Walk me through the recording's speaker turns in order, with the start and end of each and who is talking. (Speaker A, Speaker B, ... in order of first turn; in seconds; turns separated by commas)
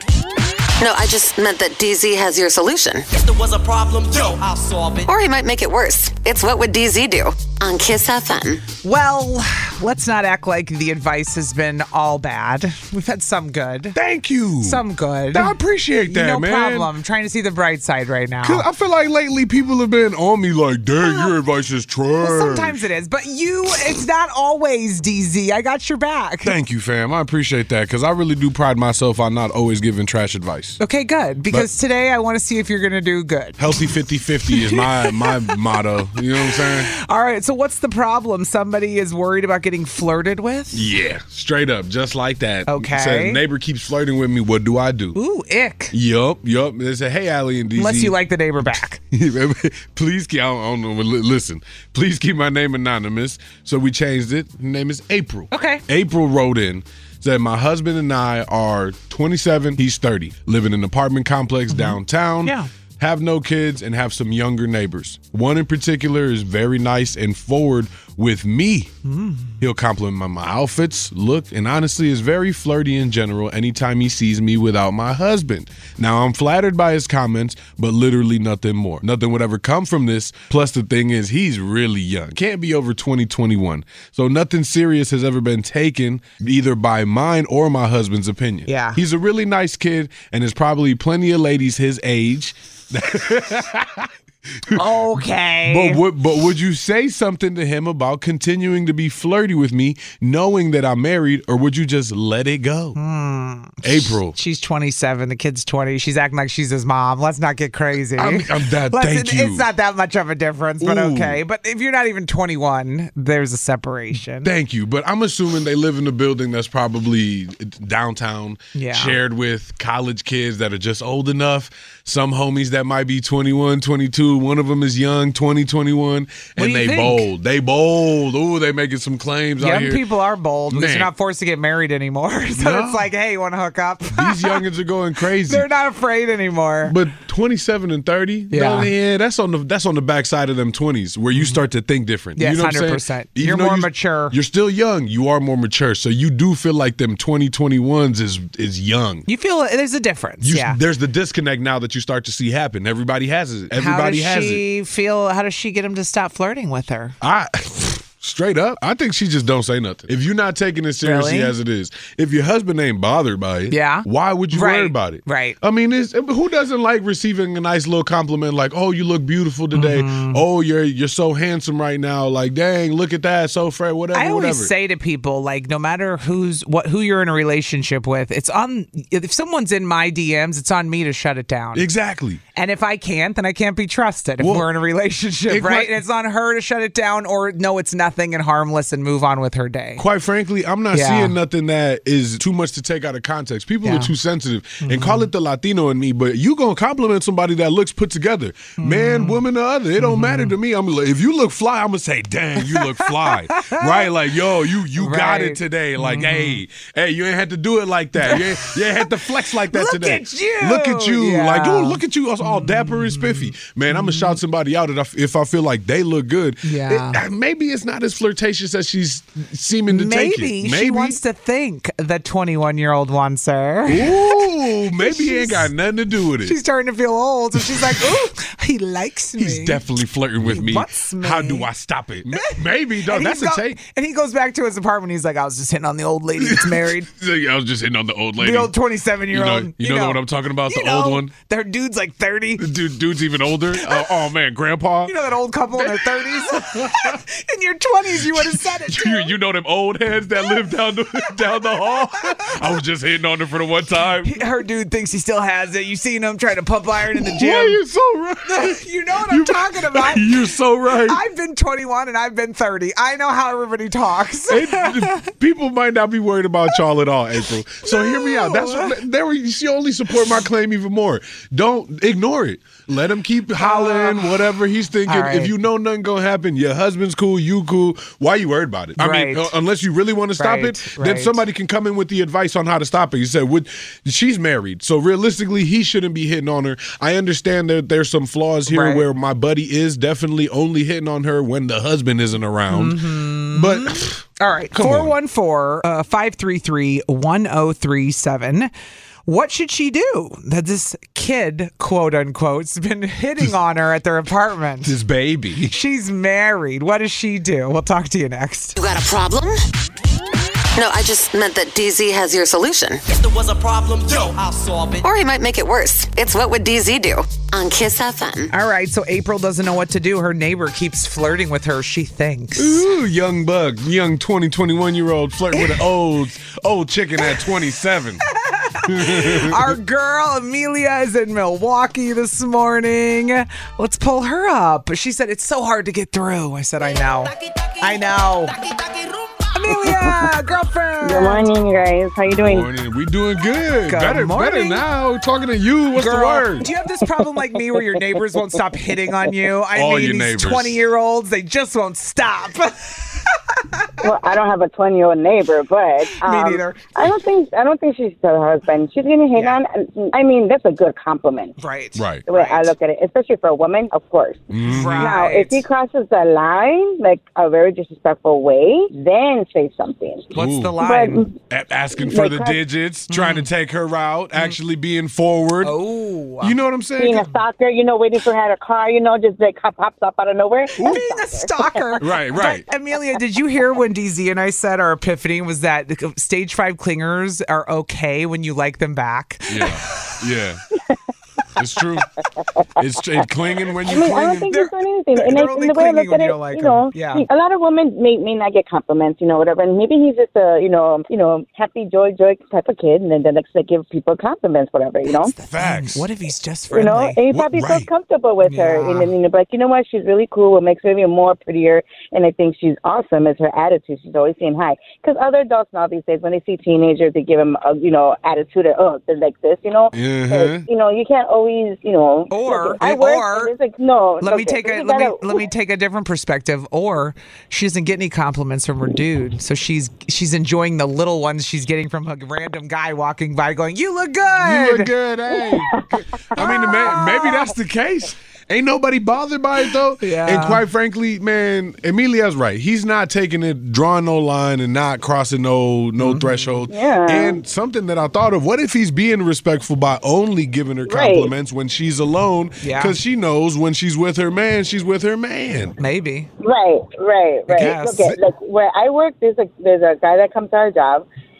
Speaker A: 0.8-3.0, Speaker B: 3.1-5.1, Speaker A: 5.1-8.6, Speaker C: 8.8-14.0, Speaker D: 13.9-16.9, Speaker C: 14.6-18.6, Speaker D: 18.4-22.8, Speaker C: 21.0-21.3, Speaker C: 22.2-26.5, Speaker D: 26.4-30.8, Speaker C: 30.8-33.6, Speaker D: 33.6-36.9, Speaker C: 34.5-35.6, Speaker C: 36.4-40.8, Speaker D: 40.7-45.2, Speaker C: 42.7-43.4, Speaker C: 45.1-45.9, Speaker D: 45.9-48.1, Speaker C: 47.7-49.0, Speaker D: 49.1-68.9, Speaker C: 55.5-55.8, Speaker C: 61.7-62.7, Speaker C: 69.0-69.6, Speaker D: 69.6-94.1, Speaker C: 88.7-89.0, Speaker C: 94.7-96.0, Speaker D: 95.7-103.0, Speaker C: 103.0-114.5, Speaker D: 103.8-104.3, Speaker D: 108.2-109.7, Speaker D: 110.8-111.4, Speaker D: 114.4-130.0, Speaker C: 118.7-119.2, Speaker C: 126.6-127.2, Speaker C: 129.6-134.6, Speaker D: 130.7-131.1, Speaker D: 132.5-133.1, Speaker D: 134.1-135.7, Speaker C: 135.4-136.9, Speaker D: 136.8-149.2, Speaker C: 138.5-138.9, Speaker C: 141.3-141.6, Speaker C: 142.4-144.4, Speaker C: 149.3-150.8, Speaker D: 150.4-154.6, Speaker C: 153.7-157.2, Speaker D: 157.2-174.7, Speaker C: 161.0-161.5, Speaker C: 163.7-165.6, Speaker C: 169.7-170.4, Speaker C: 174.1-181.8, Speaker D: 181.7-182.4, Speaker C: 182.6-190.0, Speaker D: 184.4-184.7, Speaker D: 185.5-185.9, Speaker D: 190.0-221.2, Speaker C: 190.9-191.3, Speaker C: 193.8-194.1, Speaker C: 194.8-195.3, Speaker C: 198.8-199.4, Speaker C: 200.0-200.5, Speaker C: 202.6-204.1, Speaker C: 204.9-206.6, Speaker C: 208.2-214.4, Speaker C: 216.6-217.2, Speaker C: 219.9-225.7, Speaker D: 223.9-226.6, Speaker C: 226.4-229.8, Speaker D: 227.7-228.2, Speaker D: 229.4-233.8, Speaker C: 230.4-231.7, Speaker C: 232.3-237.1, Speaker D: 236.4-238.7, Speaker C: 238.4-242.7, Speaker D: 239.3-241.3, Speaker D: 242.6-245.1, Speaker C: 243.8-244.1, Speaker C: 245.0-249.3, Speaker D: 245.8-247.2, Speaker D: 248.2-254.4, Speaker C: 251.2-252.4, Speaker C: 254.2-257.8, Speaker D: 257.1-261.2, Speaker C: 258.4-265.3, Speaker D: 264.5-294.2, Speaker C: 267.8-268.9, Speaker C: 273.6-274.3, Speaker C: 275.1-275.5, Speaker C: 279.0-279.5, Speaker C: 280.4-281.4, Speaker C: 288.7-289.1, Speaker C: 292.7-298.7, Speaker D: 294.7-295.1, Speaker C: 299.2-304.9, Speaker D: 304.8-305.7, Speaker C: 305.7-308.8, Speaker A: 308.8-309.6, Speaker A: 310.8-313.0, Speaker B: 313.1-315.0, Speaker A: 315.0-318.5, Speaker C: 318.5-322.8, Speaker D: 322.6-328.2, Speaker C: 325.5-325.9, Speaker C: 328.4-338.6, Speaker D: 328.9-329.7, Speaker C: 339.5-341.4, Speaker E: 339.8-340.3, Speaker E: 341.0-342.7, Speaker D: 342.4-346.7, Speaker C: 343.9-344.8, Speaker C: 345.9-354.0, Speaker D: 349.7-350.8, Speaker E: 354.0-361.6, Speaker C: 356.2-356.9, Speaker C: 361.6-362.7, Speaker D: 361.9-362.2, Speaker E: 362.3-371.3, Speaker D: 364.5-365.2, Speaker C: 364.7-365.6, Speaker C: 370.3-371.2, Speaker D: 370.3-370.8, Speaker D: 371.5-375.7, Speaker E: 372.0-372.6, Speaker C: 373.1-373.5, Speaker C: 375.6-376.6, Speaker D: 376.4-377.3, Speaker E: 377.0-381.5, Speaker C: 380.8-390.1, Speaker D: 382.0-382.6, Speaker D: 389.5-390.6, Speaker D: 391.6-392.1, Speaker D: 392.8-394.5, Speaker E: 393.8-405.3, Speaker C: 394.5-397.2, Speaker C: 405.1-407.2, Speaker D: 405.4-406.1, Speaker E: 406.7-425.4, Speaker D: 407.3-407.9, Speaker C: 408.4-409.1, Speaker D: 419.9-420.6, Speaker C: 422.3-423.5, Speaker C: 424.2-434.9, Speaker D: 434.4-435.7, Speaker E: 436.3-437.3, Speaker D: 436.3-455.7, Speaker C: 436.4-436.9, Speaker C: 440.0-440.6, Speaker C: 446.0-446.6, Speaker E: 446.7-447.4, Speaker E: 450.9-451.3, Speaker C: 452.6-452.9, Speaker C: 455.8-456.3, Speaker E: 456.4-461.0, Speaker C: 457.5-458.1